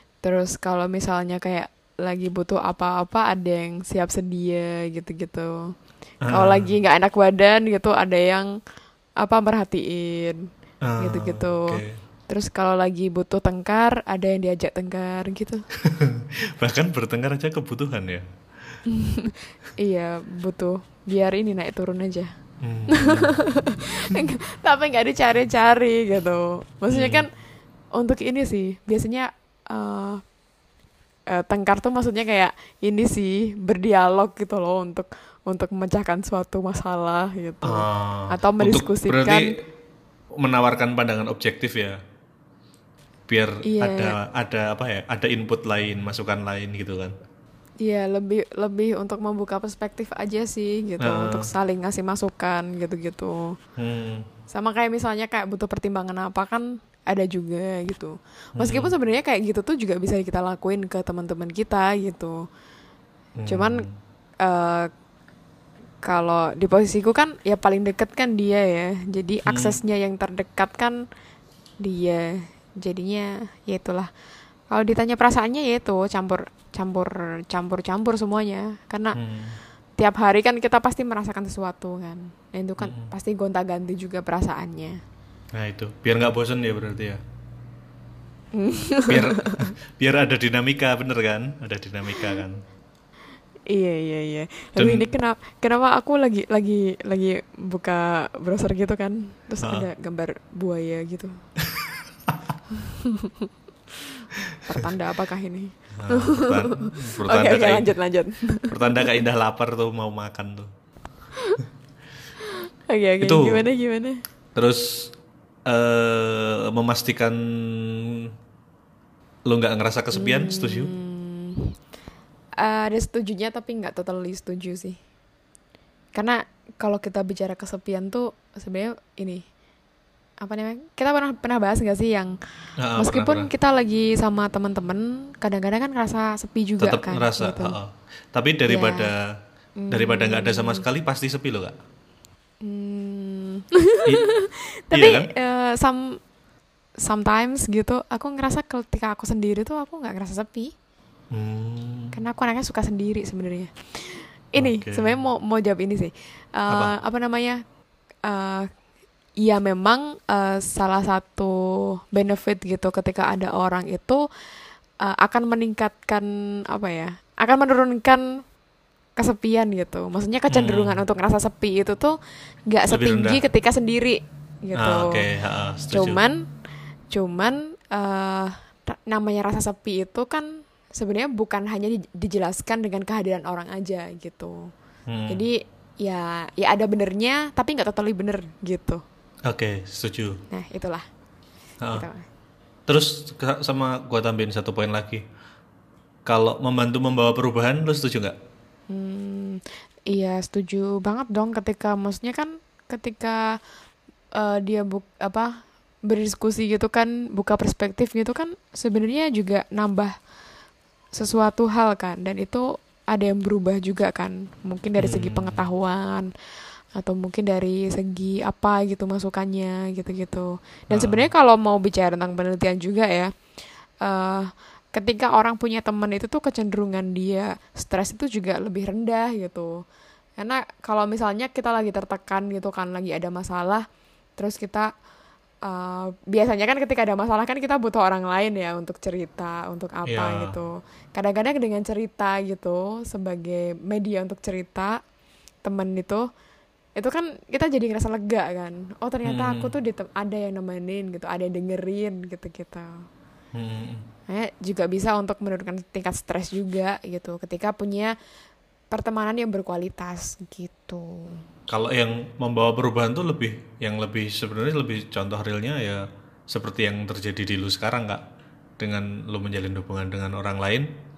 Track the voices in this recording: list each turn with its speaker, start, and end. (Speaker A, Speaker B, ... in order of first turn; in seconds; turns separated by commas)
Speaker A: 0.2-5.6, Speaker B: 6.2-6.7, Speaker A: 6.3-8.5, Speaker A: 9.2-10.4, Speaker B: 10.8-11.9, Speaker A: 11.0-15.6, Speaker B: 15.8-18.2, Speaker A: 18.9-22.3, Speaker B: 22.6-23.4, Speaker A: 22.9-27.3, Speaker B: 26.9-27.2, Speaker A: 28.0-30.2, Speaker A: 31.3-39.6, Speaker B: 37.6-39.5, Speaker B: 40.4-42.0, Speaker B: 43.3-47.1, Speaker A: 43.6-44.2, Speaker A: 47.8-53.5, Speaker B: 51.0-51.5, Speaker B: 53.8-54.3, Speaker A: 54.5-62.4, Speaker B: 58.6-58.9, Speaker B: 63.4-64.0, Speaker A: 63.5-63.9, Speaker A: 64.4-64.9, Speaker A: 66.0-71.0, Speaker B: 69.5-69.8, Speaker A: 71.8-74.1, Speaker A: 74.7-79.2, Speaker B: 79.2-79.6, Speaker A: 80.0-85.0, Speaker B: 82.8-83.1, Speaker B: 85.6-87.2, Speaker A: 88.5-89.7, Speaker B: 89.1-92.6, Speaker A: 93.7-101.4, Speaker B: 94.8-95.1, Speaker B: 99.6-99.9, Speaker B: 101.6-102.6, Speaker A: 102.7-103.5, Speaker A: 104.6-109.2, Speaker B: 106.0-107.9, Speaker B: 108.7-110.7, Speaker A: 112.9-114.2, Speaker B: 113.2-113.7, Speaker B: 114.5-115.1, Speaker B: 115.7-118.3, Speaker B: 119.5-120.9, Speaker A: 120.1-121.7, Speaker A: 122.6-125.0, Speaker A: 126.2-129.4, Speaker A: 130.4-132.4, Speaker B: 132.8-133.5, Speaker A: 133.0-137.8, Speaker B: 136.8-139.3, Speaker A: 138.7-139.1, Speaker A: 139.8-140.8, Speaker B: 139.9-141.8, Speaker A: 142.6-146.2, Speaker B: 144.9-145.3, Speaker A: 147.0-150.7, Speaker B: 151.3-152.2, Speaker A: 152.1-157.6, Speaker B: 154.6-155.2, Speaker A: 158.3-158.7, Speaker A: 159.4-161.6, Speaker A: 162.1-164.2, Speaker A: 165.1-168.2, Speaker A: 169.2-172.1, Speaker B: 170.5-171.0, Speaker A: 172.7-175.2, Speaker B: 172.9-173.4, Speaker B: 174.8-176.2, Speaker A: 175.9-176.4, Speaker A: 177.1-184.7, Speaker B: 185.1-185.4, Speaker A: 185.3-189.0, Speaker B: 189.5-190.4, Speaker A: 190.5-191.1, Speaker A: 191.9-192.2, Speaker B: 192.9-195.2, Speaker B: 196.3-198.3, Speaker A: 198.9-203.6, Speaker A: 204.4-210.1, Speaker A: 211.2-216.3, Speaker B: 215.0-215.6, Speaker A: 217.0-223.3, Speaker B: 220.9-221.3, Speaker A: 224.0-229.7, Speaker A: 230.4-233.8, Speaker A: 234.4-234.9, Speaker A: 235.7-245.0, Speaker B: 240.1-240.6, Speaker A: 245.6-246.3, Speaker A: 247.0-252.9, Speaker B: 249.2-249.7, Speaker B: 253.5-254.0, Speaker A: 254.3-258.1, Speaker A: 258.9-261.4, Speaker B: 261.7-268.2, Speaker B: 268.8-270.9